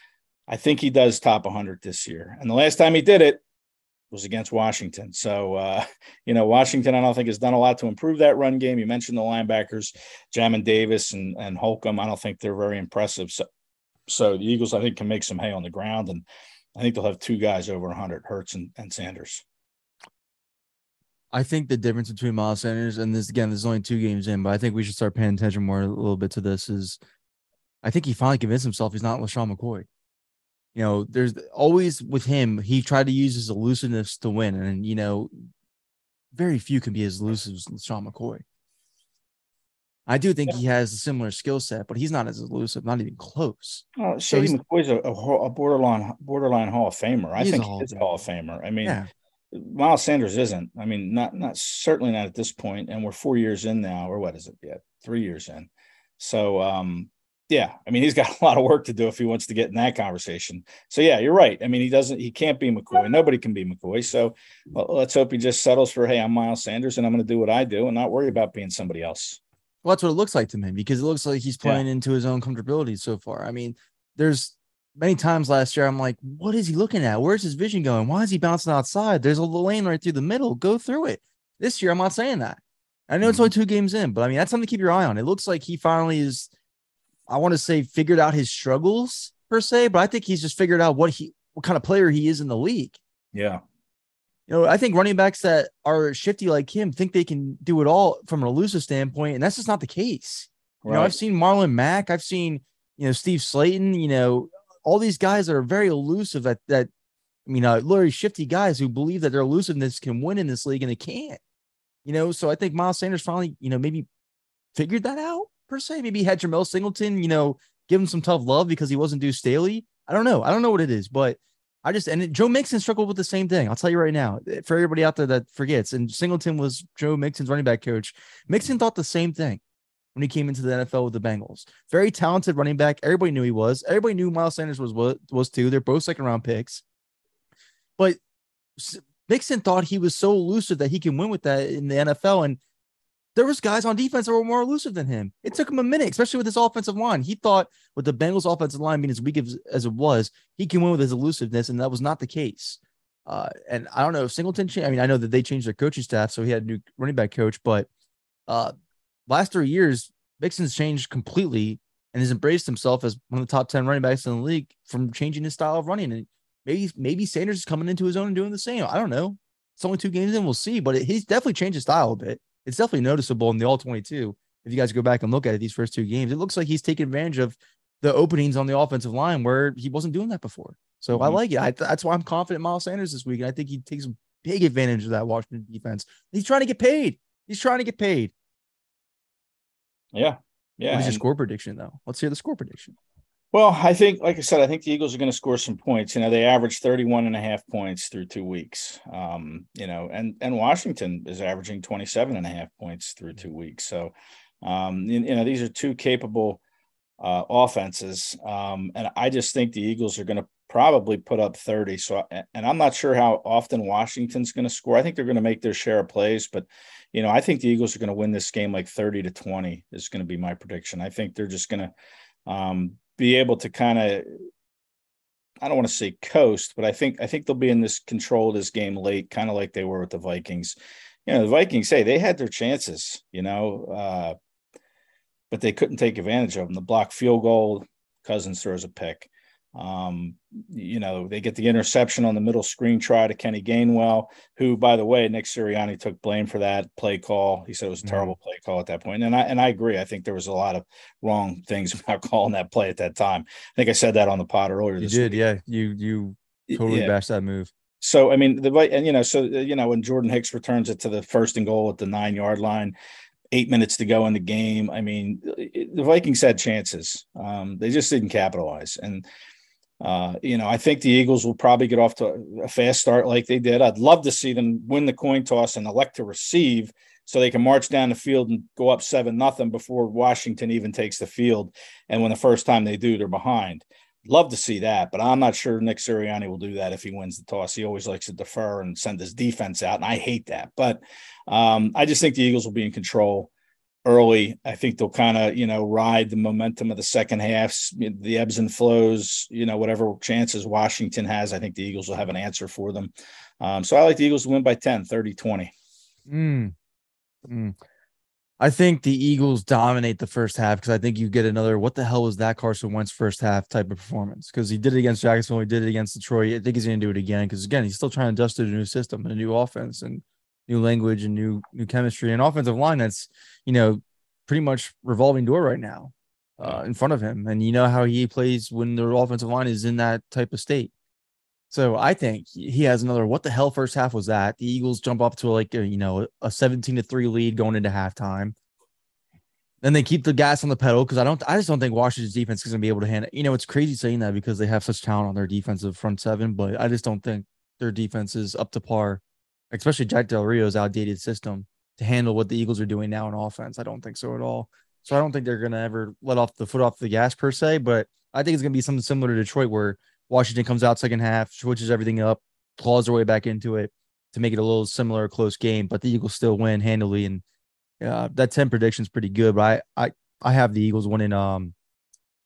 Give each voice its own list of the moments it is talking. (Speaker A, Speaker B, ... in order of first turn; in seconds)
Speaker A: 0.5-3.4, 4.1-13.4, 14.1-16.2, 16.8-19.4, 44.0-49.0, 49.5-55.7, 56.2-69.4, 83.2-83.5, 93.3-93.6, 100.8-101.2, 181.1-181.4, 190.1-191.2, 193.5-206.6, 207.2-221.9, 222.5-224.3, 225.6-230.8, 231.3-234.3, 235.5-255.4, 256.7-257.1, 258.0-262.9, 263.5-269.2, 270.0-293.5, 294.1-305.7
Speaker B: 21.3-27.0, 27.8-29.9, 30.8-35.3, 36.3-38.4, 40.1-44.6, 47.4-48.0, 48.8-49.1, 69.8-86.5, 87.3-93.0, 94.5-106.9, 107.5-111.4, 112.0-114.1, 114.8-129.6, 130.2-136.8, 138.8-142.6, 143.3-157.9, 158.5-158.7, 159.3-188.3, 190.9-193.0, 248.0-248.3, 255.0-257.7, 306.3-306.7, 307.5-307.8, 308.6-330.9, 331.7-338.6, 339.8-367.4, 368.0-371.7